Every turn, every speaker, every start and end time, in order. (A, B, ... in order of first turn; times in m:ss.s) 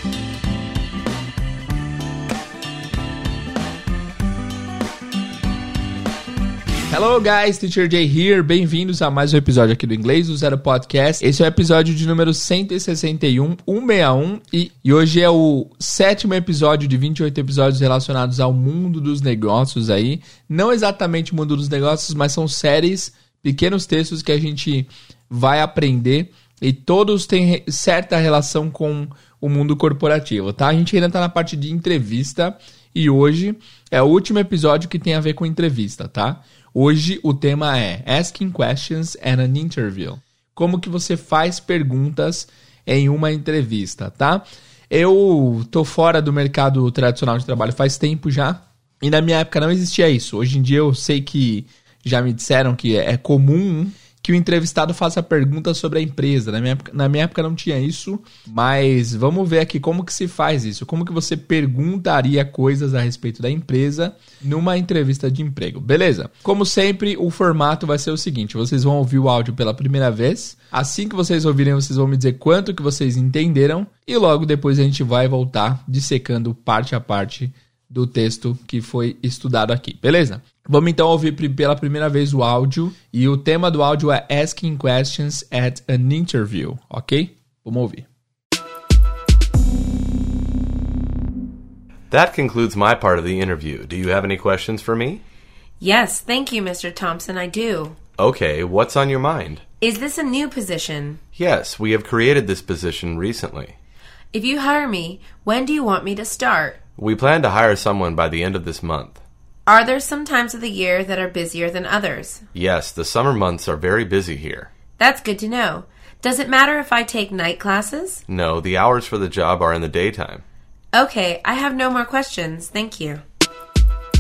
0:06.9-1:28.1 A
1:32.1-1:35.2 B
1:35.8-1:38.0 C
1:38.2-1:39.6 B
1:39.8-1:41.2 C
1:41.4-1:43.8 B
1:44.3-1:46.8 C
1:47.0-1:49.2 B
1:49.7-1:52.5 C
1:52.5-1:54.7 B
1:55.0-1:58.2 C
1:58.3-2:00.4 B
2:00.9-2:03.2 C